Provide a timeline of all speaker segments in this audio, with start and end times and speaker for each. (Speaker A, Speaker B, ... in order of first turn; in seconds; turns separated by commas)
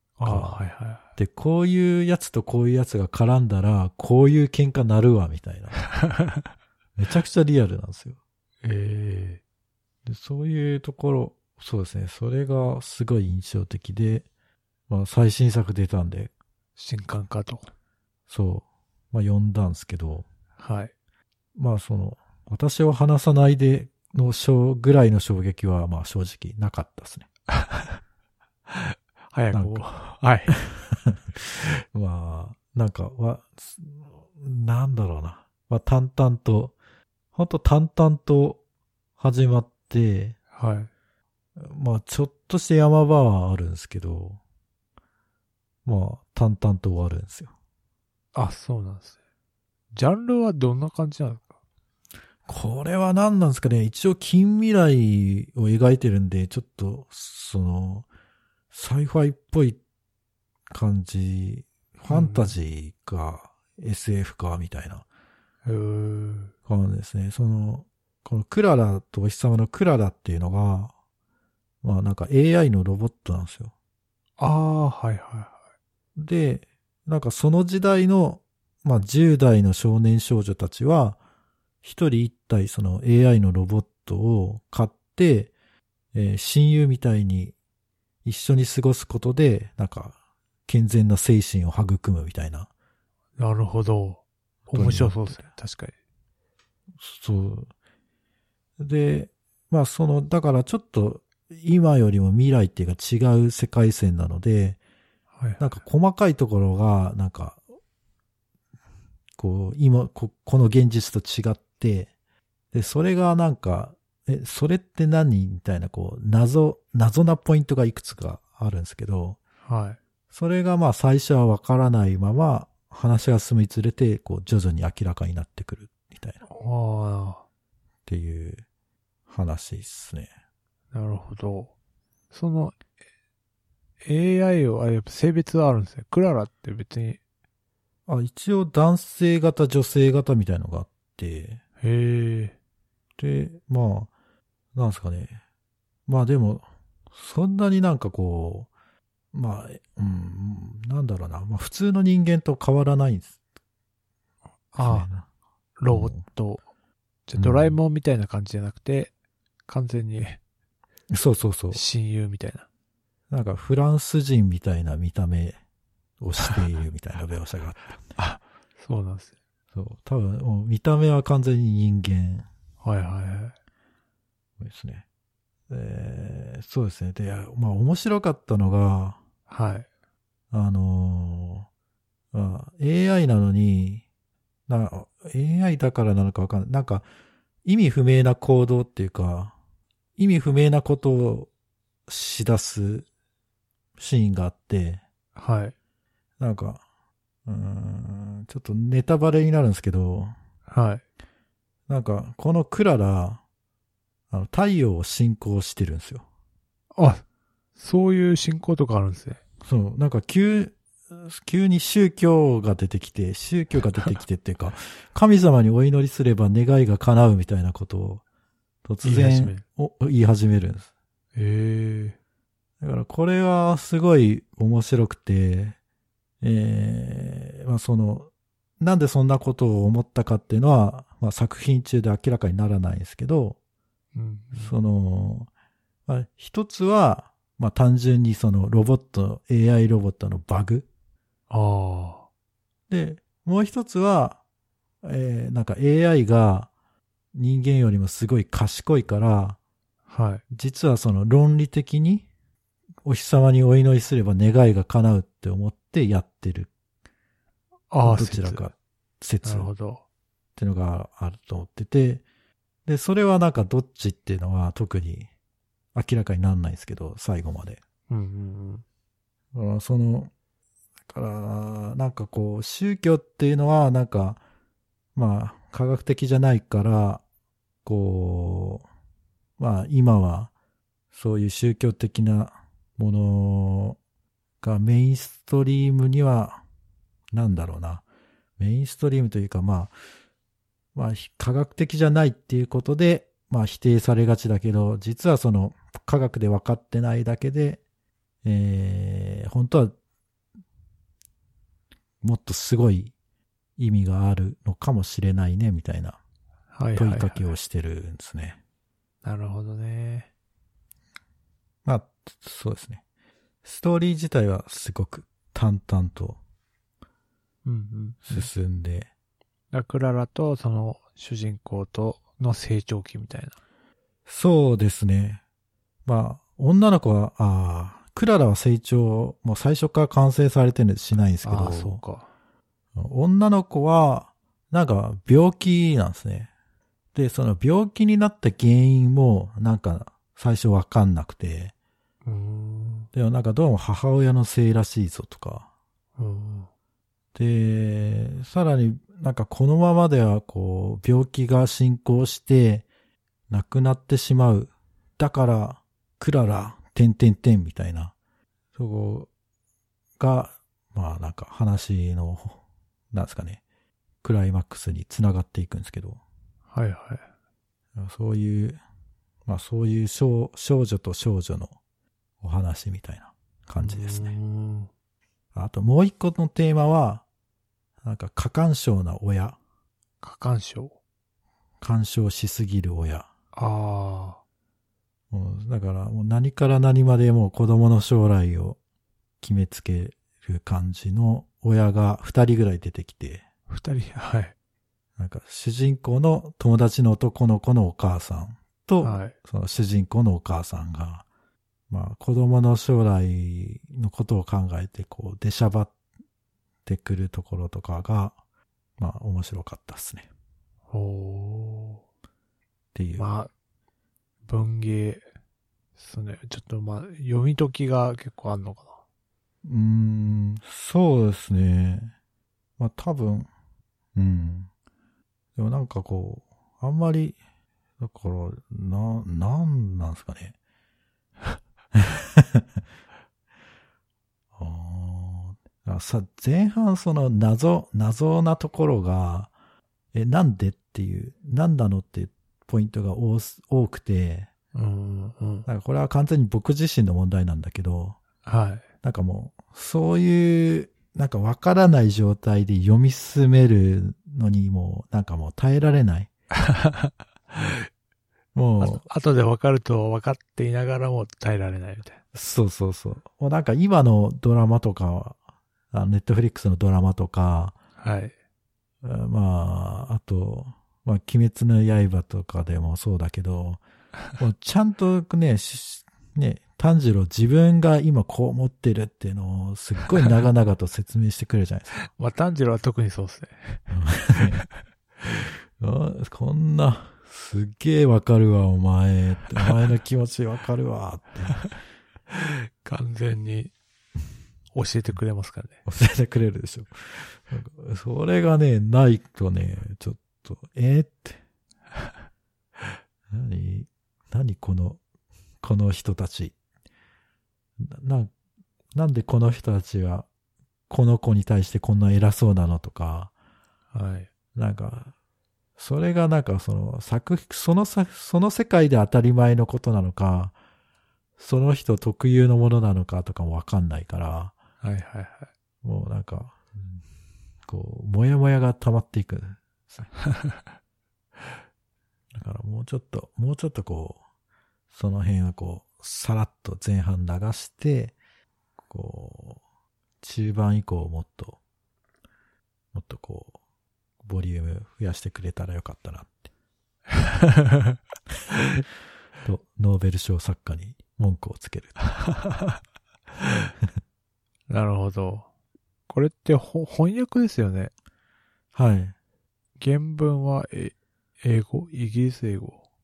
Speaker A: 0.2-1.0, Speaker B: 0.2-0.6, Speaker B: 1.2-5.8, Speaker B: 7.0-8.2, Speaker A: 8.6-9.4, Speaker B: 10.1-14.3, Speaker B: 14.9-16.3, Speaker A: 16.8-17.7, Speaker B: 18.3-20.3, Speaker A: 20.6-20.9, Speaker B: 21.6-27.3, Speaker A: 27.5-28.0, Speaker A: 28.7-30.6, Speaker B: 29.5-29.9, Speaker B: 30.5-36.8, Speaker B: 37.3-38.6, Speaker B: 39.2-40.4, Speaker A: 40.5-40.9, Speaker B: 41.6-44.4, Speaker B: 45.9-47.5, Speaker A: 48.3-49.2, Speaker A: 49.9-51.5, Speaker B: 52.5-58.1, Speaker B: 58.7-59.8, Speaker B: 60.7-65.0, Speaker A: 62.1-62.5, Speaker A: 65.7-66.5, Speaker B: 66.7-70.9, Speaker B: 71.8-73.7, Speaker A: 74.4-75.6, Speaker B: 76.2-81.2, Speaker B: 81.8-85.5, Speaker B: 86.1-87.5, Speaker B: 88.2-92.7, Speaker A: 93.4-95.9, Speaker B: 94.7-95.4, Speaker B: 97.0-97.7, Speaker B: 98.8-104.8, Speaker A: 105.4-105.8, Speaker B: 105.6-107.6, Speaker B: 109.4-112.1, Speaker B: 112.7-119.4, Speaker A: 119.7-120.0, Speaker B: 120.3-126.4, Speaker A: 126.5-127.4, Speaker B: 128.1-128.7, Speaker B: 129.3-130.3, Speaker A: 130.9-131.7, Speaker A: 132.3-132.8, Speaker A: 134.0-137.2, Speaker B: 138.1-141.6, Speaker A: 141.8-142.6, Speaker B: 143.2-144.1, Speaker B: 144.7-145.4, Speaker B: 146.1-148.7, Speaker B: 149.3-153.4, Speaker A: 154.7-155.1, Speaker B: 154.8-155.3, Speaker A: 155.8-156.6, Speaker B: 155.9-156.2, Speaker A: 157.3-159.1, Speaker B: 157.4-157.8, Speaker A: 159.7-160.4, Speaker B: 161.1-161.8, Speaker A: 161.7-162.7, Speaker B: 163.3-165.6, Speaker B: 166.2-168.0, Speaker A: 168.2-169.3, Speaker B: 169.7-172.5, Speaker A: 172.8-173.6, Speaker B: 174.6-175.1, Speaker B: 175.7-179.2, Speaker A: 179.5-179.9, Speaker B: 180.5-181.7, Speaker B: 182.3-184.0, Speaker B: 184.7-187.1, Speaker B: 187.7-189.5, Speaker B: 190.2-191.5, Speaker B: 192.1-193.1, Speaker B: 194.0-195.0, Speaker A: 195.4-195.8, Speaker B: 196.4-196.8, Speaker B: 197.5-200.3, Speaker A: 200.7-201.0, Speaker B: 201.9-203.4, Speaker B: 204.3-206.2, Speaker A: 206.9-207.2, Speaker A: 207.8-209.4, Speaker B: 209.6-218.2, Speaker B: 218.8-220.9, Speaker A: 219.0-219.6, Speaker A: 221.3-222.2, Speaker B: 222.8-225.8, Speaker B: 226.4-233.6, Speaker A: 234.2-234.7, Speaker B: 234.6-235.5, Speaker B: 236.1-240.9, Speaker A: 241.5-242.3, Speaker B: 242.9-244.4, Speaker B: 245.0-246.7, Speaker B: 247.3-249.6, Speaker A: 250.1-250.4, Speaker B: 250.5-252.3, Speaker B: 253.0-256.7, Speaker A: 257.9-258.7, Speaker B: 258.0-259.7, Speaker A: 259.4-260.0, Speaker B: 260.6-262.2, Speaker B: 262.9-265.3, Speaker B: 265.9-267.8, Speaker A: 268.1-268.8, Speaker B: 269.5-270.3, Speaker B: 271.1-274.4, Speaker B: 275.1-277.2, Speaker B: 277.9-278.9, Speaker B: 279.6-280.5, Speaker B: 281.1-284.0, Speaker B: 284.6-286.6, Speaker B: 287.3-288.0, Speaker B: 288.6-289.9, Speaker B: 290.9-297.8, Speaker B: 298.4-299.9, Speaker B: 302.2-303.1, Speaker B: 303.8-306.2, Speaker A: 306.7-307.5, Speaker B: 306.9-308.6, Speaker A: 309.2-310.3, Speaker B: 311.9-313.0, Speaker B: 313.6-316.4, Speaker A: 317.6-318.5, Speaker B: 318.3-319.1, Speaker A: 319.7-323.6, Speaker B: 324.3-325.4, Speaker B: 326.1-332.0, Speaker A: 331.4-332.3, Speaker B: 332.9-336.5, Speaker B: 337.1-341.7, Speaker A: 342.2-343.1, Speaker B: 343.1-345.7, Speaker A: 346.2-346.7, Speaker B: 347.4-352.9, Speaker B: 353.5-358.1, Speaker B: 358.8-359.3, Speaker B: 360.2-362.6, Speaker B: 363.1-363.6, Speaker B: 364.2-366.2, Speaker A: 366.7-367.2, Speaker B: 368.0-368.8, Speaker B: 369.5-371.8, Speaker B: 372.4-374.4, Speaker A: 373.8-374.9, Speaker B: 375.5-377.2, Speaker B: 378.0-379.6, Speaker A: 380.2-381.0, Speaker B: 381.8-383.3, Speaker A: 383.6-384.4, Speaker B: 385.3-388.8, Speaker B: 389.4-393.4, Speaker A: 393.7-394.6, Speaker B: 395.2-401.2, Speaker A: 399.0-399.4, Speaker B: 401.9-405.9, Speaker B: 406.9-408.4, Speaker B: 409.0-410.3, Speaker A: 410.9-412.0, Speaker B: 412.9-413.3, Speaker A: 413.2-413.5, Speaker A: 414.5-415.2, Speaker A: 416.0-419.0, Speaker B: 419.6-422.1, Speaker B: 422.8-423.5, Speaker B: 424.1-424.7, Speaker B: 425.6-427.4, Speaker B: 428.0-430.6, Speaker B: 431.9-432.8, Speaker B: 434.6-439.5, Speaker B: 440.1-444.5, Speaker A: 444.8-445.7, Speaker B: 445.7-448.2, Speaker A: 448.4-448.8, Speaker B: 449.0-456.3, Speaker A: 456.6-457.9, Speaker B: 458.5-459.0, Speaker A: 458.8-462.2, Speaker B: 462.3-465.4, Speaker B: 465.9-467.8, Speaker A: 468.0-468.3, Speaker B: 469.0-473.8, Speaker B: 474.4-482.1, Speaker A: 482.1-484.5, Speaker B: 483.9-484.6, Speaker B: 485.3-491.6, Speaker A: 492.3-493.7, Speaker A: 494.7-495.8, Speaker B: 495.9-501.4, Speaker B: 503.3-505.0, Speaker B: 505.6-506.6, Speaker B: 507.8-508.3, Speaker B: 508.9-510.3, Speaker B: 510.9-513.3, Speaker A: 513.9-514.3, Speaker B: 514.5-515.1, Speaker B: 515.8-520.5, Speaker B: 521.4-524.5, Speaker A: 524.8-525.5, Speaker B: 525.8-527.0, Speaker B: 527.7-530.1, Speaker A: 530.3-530.6, Speaker B: 532.3-534.2, Speaker B: 534.9-538.1, Speaker B: 538.9-539.6, Speaker B: 540.2-541.6, Speaker B: 542.9-543.6, Speaker B: 544.2-546.4, Speaker A: 547.2-547.9, Speaker B: 549.4-552.0, Speaker A: 552.2-552.8, Speaker A: 554.7-555.5, Speaker A: 556.1-557.9, Speaker B: 558.7-559.1, Speaker A: 559.8-562.8